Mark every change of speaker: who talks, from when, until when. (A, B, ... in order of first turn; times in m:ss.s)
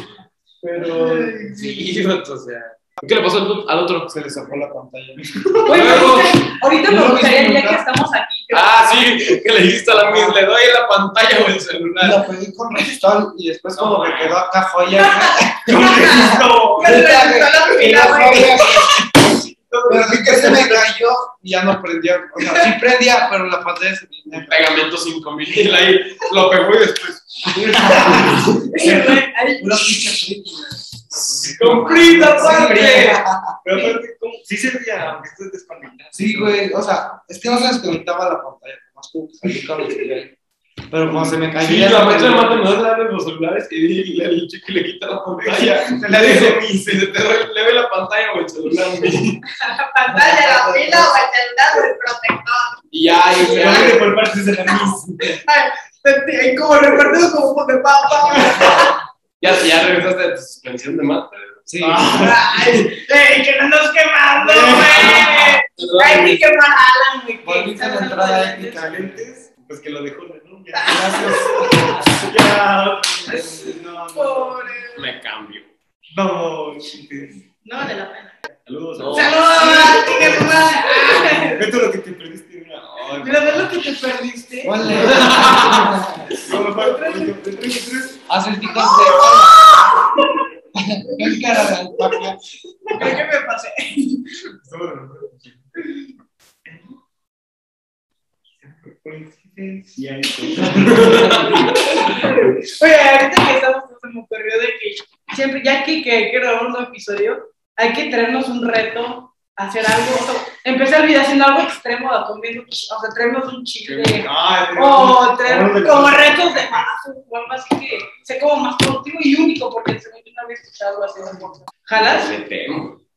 0:00.6-0:01.3 A
0:00.8-0:01.8 B
0:01.0-0:04.1 C
0:04.1-0:06.1 D
0:05.6-0:09.1 B
0:05.7-0:06.5 C
0:06.8-0:07.8 D
0:08.5-0:12.2 C
0:12.0-0:19.2 D
0:13.8-0:14.3 A
0:14.9-0:18.9 B
0:15.7-0:17.1 A
0:17.8-0:20.9 A
0:19.9-0:24.7 D
0:24.4-0:28.7 C
0:27.5-0:33.6 D
0:28.6-0:30.1 B
0:31.3-0:33.2 C
0:31.4-0:32.5 A
0:33.6-0:36.6 A
0:36.1-0:40.3 D
0:40.9-0:42.6 D
0:41.5-0:49.4 C
0:45.4-0:47.1 A
0:49.5-0:52.8 B
0:50.1-0:51.1 A
0:52.9-0:54.2 C
0:53.3-0:54.0 B
0:53.5-0:55.4 A
0:55.2-0:59.0 B
0:59.4-1:01.7 C
1:01.7-1:02.3 D
1:01.8-1:02.8 A
1:02.1-1:08.8 B
1:04.4-1:05.3 A
1:04.8-1:06.4 C
1:07.4-1:09.2 D
1:08.7-1:14.8 A
1:10.8-1:12.0 B
1:10.9-1:12.2 D
1:14.1-1:15.0 B
1:14.9-1:15.7 C
1:16.1-1:17.4 A
1:17.6-1:18.4 B
1:18.6-1:23.7 A
1:19.0-1:20.0 C
1:19.1-1:21.7 B
1:23.2-1:25.3 B
1:24.6-1:26.4 D
1:24.9-1:28.2 A
1:24.9-1:25.9 C
1:26.5-1:27.3 B
1:28.3-1:30.1 D
1:28.7-1:30.5 B
1:30.8-1:32.4 D
1:31.2-1:31.7 B
1:32.9-1:34.4 B
1:34.6-1:35.6 A
1:36.7-1:37.0 A
1:38.9-1:41.9 A
1:40.8-1:42.0 C
1:41.7-2:02.3 B
1:54.2-1:56.9 A
2:01.9-2:03.0 C